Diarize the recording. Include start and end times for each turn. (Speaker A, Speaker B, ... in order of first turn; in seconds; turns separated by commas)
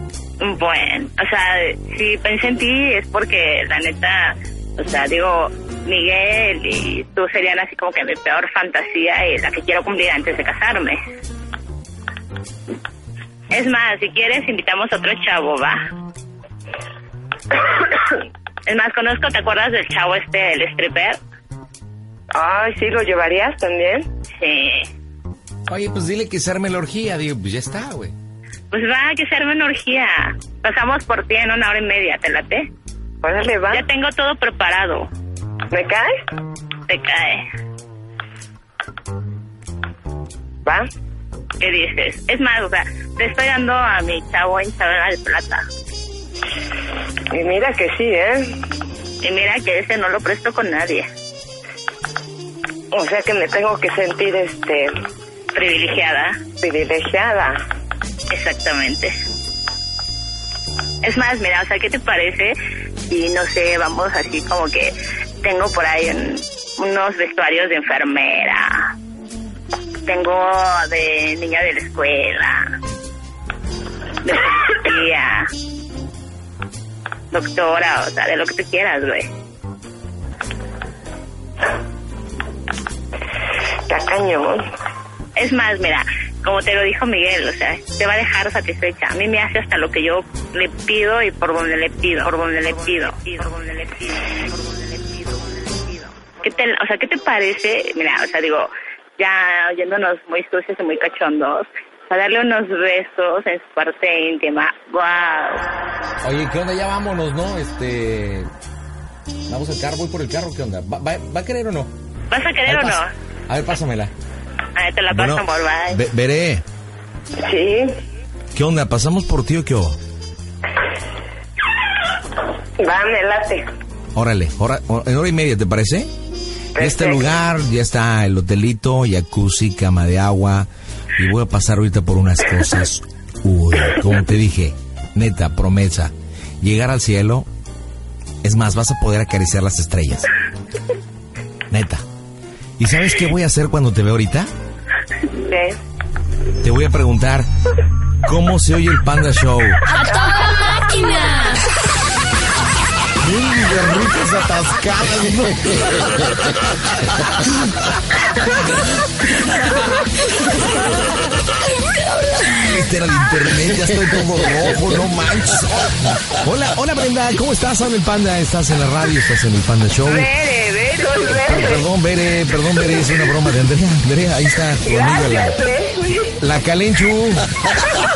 Speaker A: 0.4-11.0, Speaker A: 13.5-15.8, Speaker A: 18.6-21.2, Speaker B: 22.3-24.1, Speaker A: 24.4-24.9, Speaker C: 25.7-28.1, Speaker A: 28.7-32.7, Speaker B: 33.2-33.9, Speaker A: 33.7-35.1, Speaker B: 35.7-36.1, Speaker A: 36.9-37.4, Speaker A: 41.6-45.6, Speaker B: 47.3-48.5, Speaker A: 49.2-51.1, Speaker B: 52.9-54.9, Speaker A: 55.5-56.4, Speaker B: 56.6-57.6, Speaker A: 58.3-59.1, Speaker A: 61.0-62.5, Speaker A: 63.1-68.9, Speaker A: 70.1-72.6, Speaker A: 74.2-75.5, Speaker A: 77.3-79.3, Speaker B: 83.9-84.6, Speaker A: 85.4-105.6, Speaker C: 106.2-108.5, Speaker C: 109.5-111.9, Speaker A: 112.3-113.1, Speaker C: 112.7-114.1, Speaker A: 114.8-116.0, Speaker C: 115.1-116.6, Speaker B: 117.4-117.9, Speaker C: 118.5-120.0, Speaker B: 122.8-123.7, Speaker C: 124.1-126.1, Speaker B: 126.8-127.3, Speaker C: 126.8-137.5, Speaker C: 138.4-140.3, Speaker C: 141.7-142.1, Speaker C: 142.8-144.5, Speaker B: 145.5-145.8, Speaker C: 146.6-147.5, Speaker C: 148.2-149.9, Speaker A: 150.7-151.5, Speaker C: 153.2-156.2, Speaker C: 157.1-160.4, Speaker C: 162.3-170.3, Speaker B: 170.1-171.8, Speaker C: 171.3-175.6, Speaker B: 174.8-176.4, Speaker C: 176.4-177.7